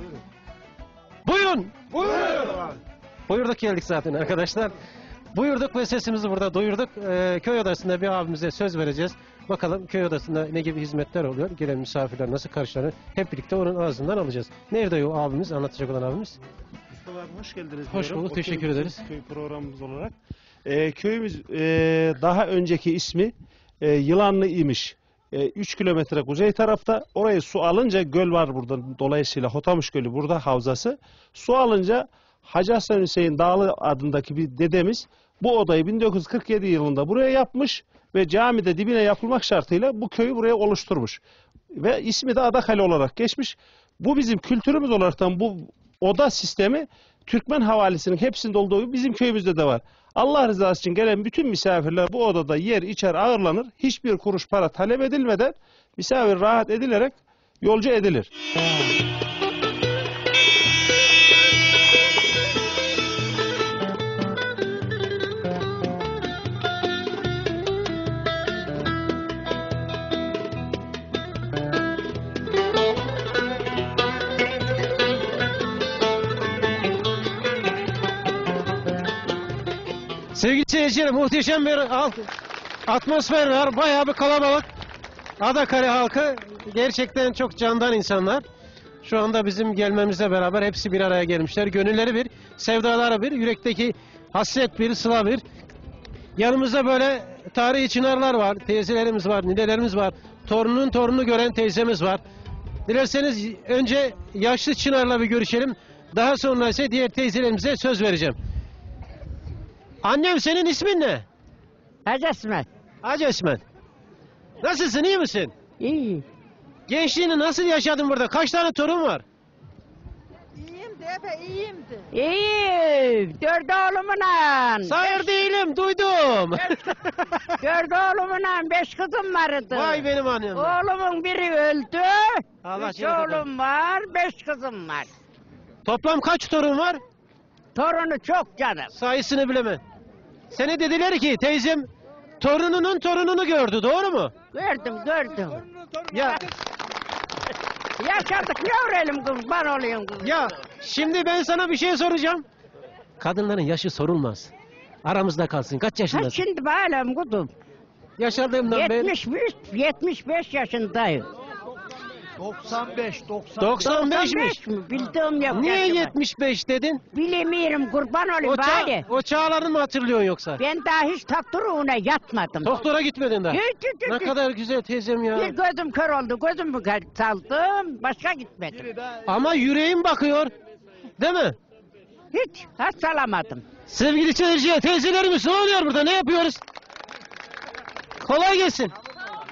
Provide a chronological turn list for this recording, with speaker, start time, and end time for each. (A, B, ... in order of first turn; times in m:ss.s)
0:01.2-0:02.5 A
0:03.3-0:04.7 A
0:05.3-0:16.4 A
0:16.9-0:41.2 B
0:17.9-0:19.0 A
0:41.7-0:58.3 B
1:20.3-1:22.3 A
1:22.9-1:24.7 A
1:25.4-1:28.4 A
1:29.0-1:35.4 A
1:36.4-1:42.2 A
1:42.9-1:48.4 A
1:50.0-1:51.2 A
1:52.0-1:52.7 C
1:53.0-1:53.6 A
1:54.6-1:55.5 A
1:55.8-1:56.2 C
1:56.9-1:59.2 A
2:02.1-2:05.3 C
2:04.8-2:07.4 A
2:07.6-2:15.1 C
2:09.7-2:10.8 A
2:12.6-2:13.5 A
2:15.8-2:17.0 A
2:17.7-2:18.9 C
2:18.9-2:19.8 A
2:20.5-2:21.9 A
2:22.4-2:24.3 A
2:24.5-2:25.6 C
2:26.1-2:26.5 A
2:26.1-2:26.4 C
2:28.0-2:30.4 C
2:30.2-2:32.4 A
2:33.2-2:34.5 A
2:35.0-2:36.4 A
2:36.1-2:37.5 C
2:38.2-2:39.1 A
2:38.6-2:41.2 C
2:42.7-2:43.0 C
2:43.6-2:44.6 A
2:43.6-2:46.1 C
2:45.5-2:47.0 A
2:47.1-2:49.0 C
2:48.4-2:50.6 A
2:50.6-2:52.9 C
2:52.6-2:55.5 A
2:53.5-2:54.3 C
2:55.3-2:58.9 C
2:59.2-3:00.5 A
3:01.2-3:01.6 A
3:02.3-3:03.6 C
3:03.9-3:06.6 A
3:08.2-3:08.9 A